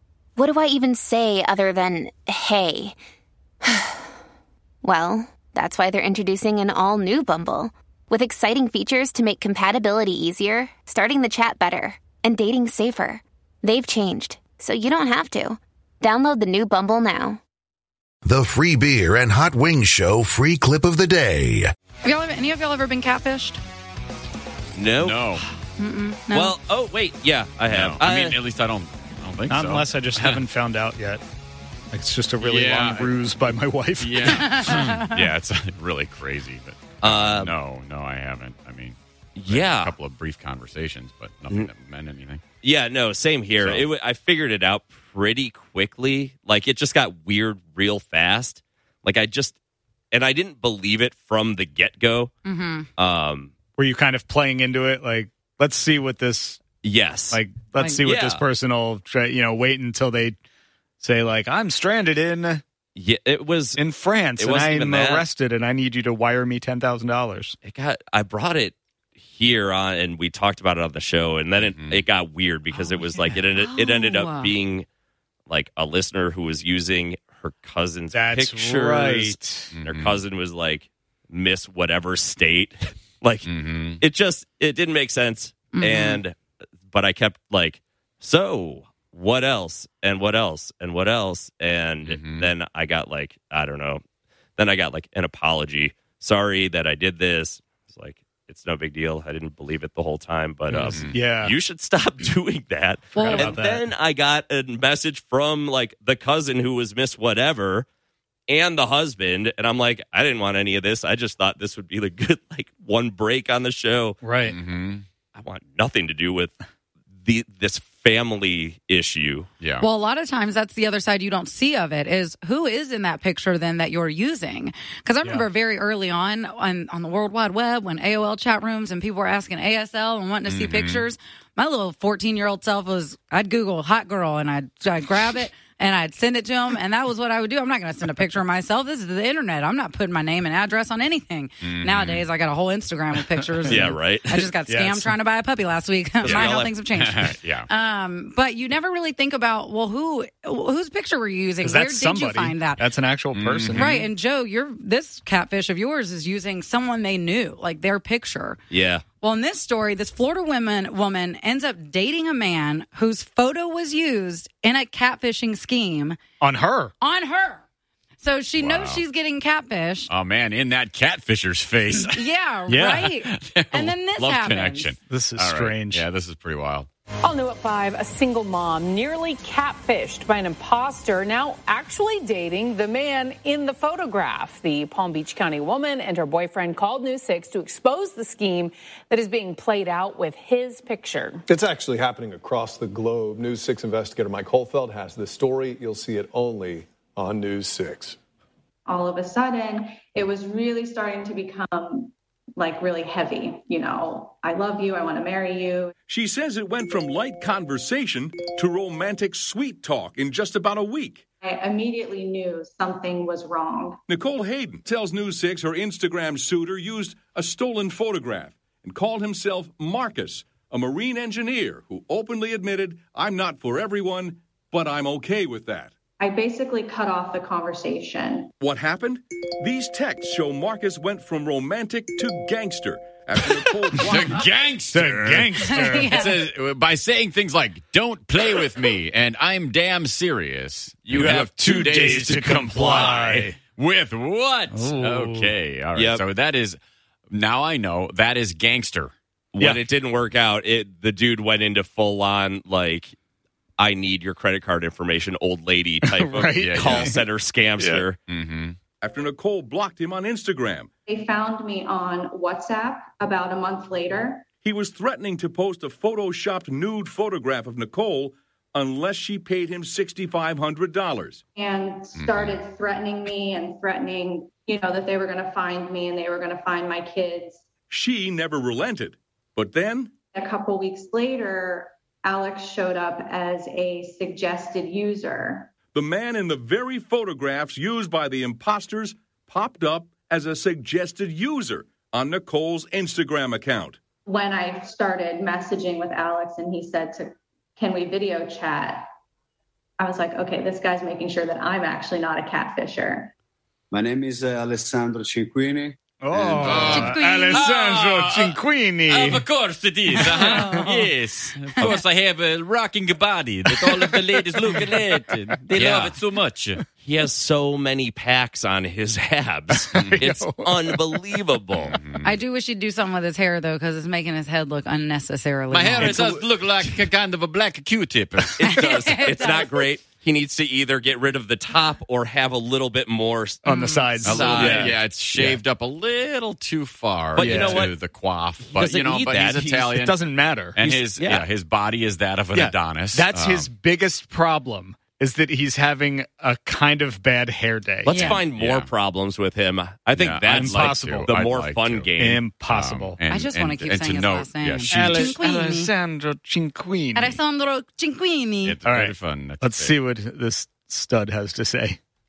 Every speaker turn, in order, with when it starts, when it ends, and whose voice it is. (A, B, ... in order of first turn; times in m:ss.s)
0:00.4-0:03.0 A
0:03.6-0:04.0 A
0:04.8-0:17.4 A
0:18.2-0:21.7 B
0:22.0-0:23.6 C
0:24.8-0:25.4 D
0:25.0-0:25.4 E
0:25.8-0:26.6 C
0:26.3-0:28.4 D
0:27.7-0:30.5 E
0:29.5-0:31.2 F
0:31.9-0:34.6 F
0:32.4-0:42.4 E
0:34.2-0:35.2 C
0:37.0-0:37.5 D
0:39.4-0:39.9 D
0:42.6-0:49.6 D
0:43.6-0:43.9 E
0:50.1-0:52.3 D
0:52.4-0:52.9 C
0:53.0-0:53.5 D
0:53.8-0:56.6 F
0:56.8-0:57.4 D
0:57.3-1:00.4 F
0:58.0-0:58.4 D
1:01.0-1:02.6 F
1:03.0-1:03.8 D
1:03.8-1:04.4 F
1:04.4-1:05.3 D
1:04.9-1:07.6 F
1:07.6-1:08.8 D
1:09.3-1:14.9 D
1:11.6-1:12.0 E
1:12.7-1:14.6 C
1:15.5-1:23.5 D
1:18.2-1:19.7 F
1:19.7-1:20.2 E
1:23.4-1:24.0 E
1:24.0-1:26.4 D
1:25.7-1:26.2 C
1:26.9-1:34.0 D
1:32.0-1:32.5 E
1:34.6-1:47.9 D
1:40.7-1:41.5 F
1:40.8-1:41.2 E
1:43.2-1:43.6 C
1:43.2-1:43.7 F
1:48.5-1:54.2 D
1:54.2-1:54.6 F
1:54.4-1:55.0 E
1:55.4-1:56.6 D
1:57.2-1:59.5 D
1:59.6-1:59.9 E
1:59.8-2:32.9 C
2:10.5-2:11.1 E
2:21.6-2:22.3 E
2:23.7-2:24.5 D
2:24.7-2:25.2 F
2:26.2-2:26.8 D
2:26.9-2:27.7 E
2:31.6-2:34.0 F
2:33.3-2:34.0 E
2:33.7-2:38.6 C
2:38.7-2:39.0 D
2:39.2-2:46.2 C
2:46.4-2:46.9 F
2:47.0-2:47.6 C
2:48.2-2:50.1 C
2:48.6-2:49.0 E
2:50.1-2:52.2 E
2:52.0-2:55.0 C
2:52.7-2:53.0 F
2:52.8-2:56.9 E
2:55.0-2:56.0 F
2:57.2-3:11.4 G
3:11.5-3:18.2 H
3:18.9-3:25.9 I
3:26.1-3:31.2 J
3:31.4-3:34.0 I
3:34.1-3:46.0 J
3:46.2-3:48.5 I
3:48.6-3:54.5 J
3:54.0-4:06.8 E
3:54.9-3:56.1 F
3:55.7-3:56.4 C
4:01.1-4:03.0 D
4:01.8-4:03.5 F
4:04.8-4:05.5 F
4:06.0-4:06.2 D
4:07.3-4:09.1 E
4:09.5-4:13.1 D
4:13.8-4:18.2 D
4:16.2-4:17.1 F
4:16.6-4:17.2 E
4:17.8-4:18.8 E
4:19.0-4:20.9 J
4:21.1-4:24.5 I
4:24.6-4:31.4 J
4:31.6-4:37.6 I
4:32.2-4:32.6 E
4:37.9-4:40.2 J
4:40.3-4:45.7 I
4:45.9-4:54.0 J
4:54.3-4:59.1 I
5:00.0-5:03.3 I
5:03.9-5:07.0 K
5:06.2-5:09.4 F
5:06.6-5:16.8 E
5:06.9-5:07.7 C
5:10.1-5:11.1 F
5:10.4-5:10.8 C
5:13.7-5:15.2 F
5:15.8-5:16.2 D
5:17.0-5:22.0 D
5:19.8-5:21.1 F
5:19.9-5:20.3 E
5:21.8-5:22.4 E
5:22.2-5:26.2 C
5:25.7-5:28.5 E
5:28.6-5:35.0 D
5:28.6-5:29.8 C
5:33.7-5:34.2 C
5:33.7-5:34.8 F
5:34.2-5:40.2 E
5:37.4-5:38.0 D
5:37.5-5:37.8 F
5:38.6-5:40.0 D
5:40.1-5:40.9 F
5:40.8-5:43.7 E
5:41.2-5:41.4 D
5:42.6-5:48.1 F
5:48.0-5:52.5 D
5:48.1-5:48.4 C
5:48.3-5:48.9 E
5:50.2-5:52.1 E
5:50.6-5:51.3 F
5:52.2-5:53.2 F
5:52.7-5:55.4 E
5:53.3-5:55.9 C
5:54.9-5:57.4 F
5:57.2-5:58.8 C
5:58.6-6:00.0 E
5:58.9-6:02.0 F